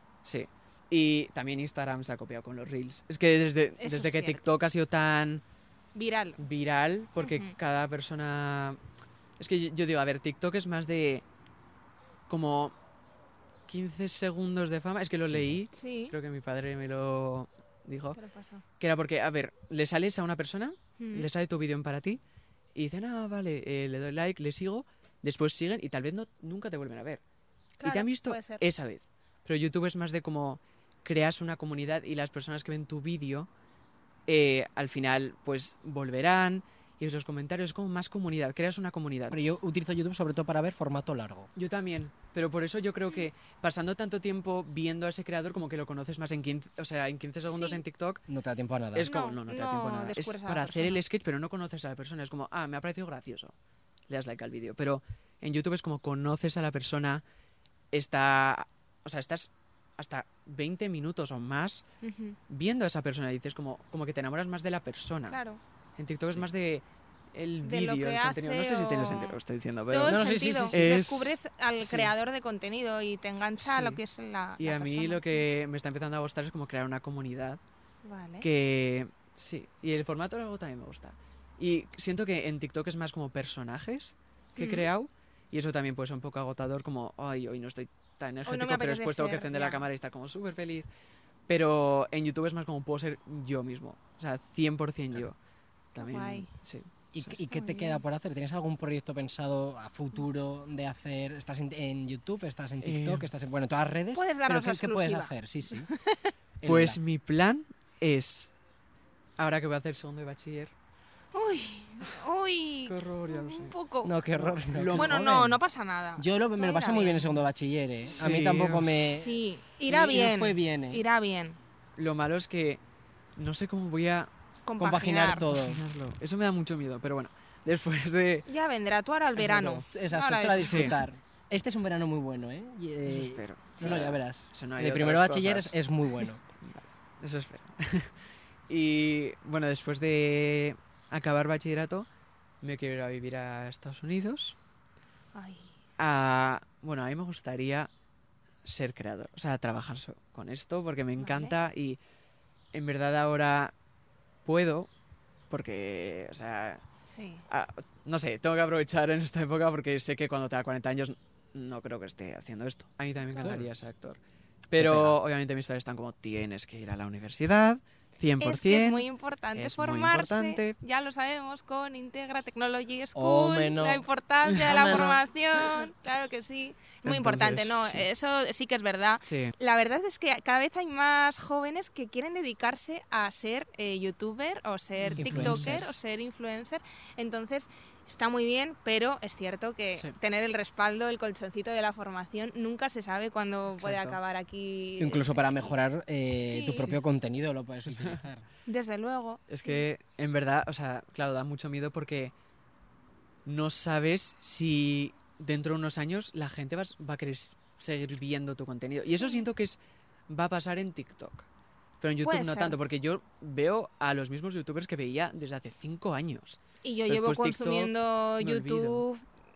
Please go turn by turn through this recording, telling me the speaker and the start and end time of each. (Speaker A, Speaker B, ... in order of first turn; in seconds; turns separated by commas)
Speaker A: 0.2-5.4, Speaker B: 3.8-4.4, Speaker B: 6.0-6.4, Speaker A: 6.4-8.8, Speaker B: 7.2-7.5, Speaker A: 9.4-11.2, Speaker A: 12.3-12.7, Speaker A: 13.7-18.2, Speaker C: 15.2-15.6, Speaker B: 15.7-16.2, Speaker B: 18.1-18.6, Speaker A: 18.8-22.2, Speaker B: 21.0-21.3, Speaker A: 22.8-27.2, Speaker B: 27.8-28.6, Speaker A: 27.8-33.5, Speaker A: 34.3-39.4, Speaker C: 39.3-41.5, Speaker A: 41.6-48.2, Speaker B: 47.5-47.8, Speaker C: 48.3-49.1, Speaker A: 48.9-53.5, Speaker B: 49.0-51.0, Speaker A: 54.1-57.2, Speaker A: 57.9-61.9, Speaker B: 62.0-62.4, Speaker A: 62.5-65.4, Speaker B: 65.3-65.6, Speaker A: 66.0-72.1, Speaker B: 67.6-69.4, Speaker B: 69.9-75.5, Speaker C: 70.1-70.8, Speaker A: 73.6-74.0, Speaker A: 74.6-77.6, Speaker B: 78.0-78.5, Speaker A: 78.4-90.9, Speaker B: 84.6-84.9, Speaker B: 88.5-89.9, Speaker A: 91.5-95.3, Speaker A: 96.0-97.3, Speaker B: 96.0-96.5, Speaker C: 97.1-105.9, Speaker B: 97.5-98.0, Speaker A: 102.8-103.3, Speaker B: 104.2-106.3, Speaker C: 106.6-107.0, Speaker A: 106.6-108.5, Speaker A: 109.4-110.7, Speaker B: 111.3-114.2, Speaker A: 112.9-113.8, Speaker C: 114.0-115.6, Speaker A: 114.3-115.2, Speaker B: 115.0-117.4, Speaker C: 116.2-121.0, Speaker A: 118.1-119.0, Speaker B: 119.1-121.6, Speaker A: 122.0-122.8, Speaker A: 123.4-124.3, Speaker B: 124.7-125.5, Speaker C: 124.8-125.8, Speaker A: 125.5-128.5, Speaker B: 128.5-131.0, Speaker C: 129.4-136.4, Speaker A: 130.6-130.9, Speaker A: 133.1-135.8, Speaker A: 136.6-138.1, Speaker A: 138.7-142.1, Speaker A: 142.6-144.6, Speaker B: 145.3-145.8, Speaker A: 146.0-147.9, Speaker A: 148.7-152.0, Speaker B: 151.2-151.6, Speaker A: 152.7-153.7, Speaker A: 154.4-154.9, Speaker A: 155.5-156.8, Speaker B: 157.1-157.4, Speaker A: 157.5-170.8, Speaker C: 163.4-163.7, Speaker C: 164.8-165.2, Speaker B: 168.4-195.8, Speaker C: 173.2-174.1, Speaker A: 174.4-175.2, Speaker C: 174.7-175.2, Speaker A: 177.0-178.1, Speaker A: 179.2-179.6, Speaker A: 185.0-185.9, Speaker C: 185.2-185.9, Speaker A: 193.8-194.2, Speaker C: 195.0-198.5, Speaker B: 196.4-196.9, Speaker A: 197.9-198.2, Speaker B: 198.7-199.9, Speaker A: 199.5-202.3, Speaker A: 203.5-209.8, Speaker B: 209.1-209.5, Speaker A: 210.3-211.5, Speaker A: 212.0-219.0, Speaker B: 212.2-212.8, Speaker B: 216.8-219.2